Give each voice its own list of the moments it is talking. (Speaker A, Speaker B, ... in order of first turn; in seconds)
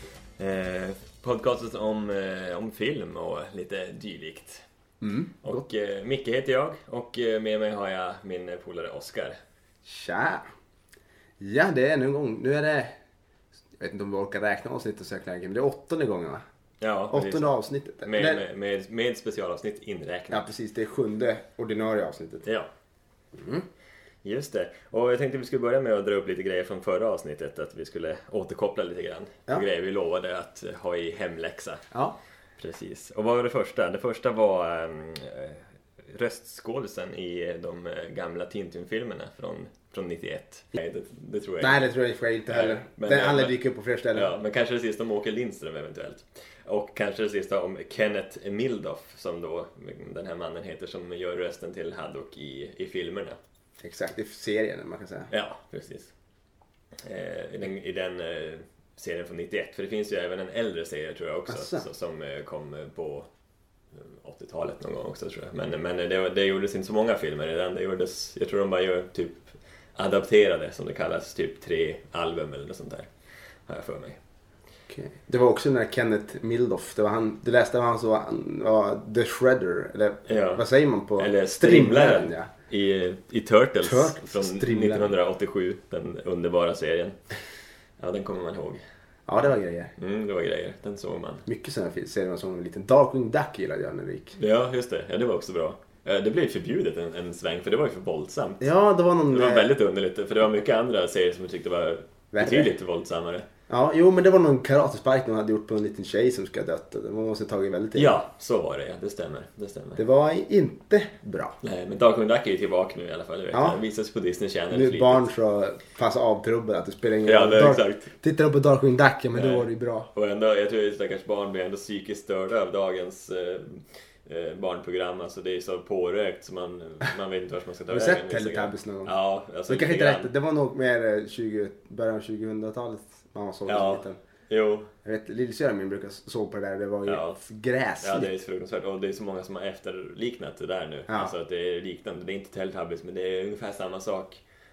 Speaker A: 0.4-4.6, 5.4-9.4, 16.8-17.5, 18.1-20.5, 22.4-22.7, 24.2-31.9, 32.6-41.9, 42.5-43.6, 44.1-53.4, 55.3-56.1, 57.0-63.3, 64.0-73.1, 73.7-74.2, 80.3-80.7, 81.2-87.2, 88.0-88.8, 90.0-91.5, 94.4-98.7, 99.3-103.5, 108.0-110.0, 111.6-115.2, 117.2-118.1, 119.3-130.3, 133.7-134.9, 137.1-137.4, 138.0-144.4
Speaker B: 5.0-5.6, 9.8-10.5, 11.4-13.0, 13.8-16.4, 17.1-18.4, 20.3-22.4, 23.3-23.7, 31.9-32.2, 41.6-44.3, 53.8-55.3, 61.5-61.9, 74.9-82.5, 83.8-85.1, 89.3-89.9, 91.5-94.4, 98.6-99.7, 102.3-102.7, 103.7-108.2, 110.0-111.5, 113.5-113.8, 114.7-120.1, 127.9-129.1, 129.7-134.2, 135.0-138.3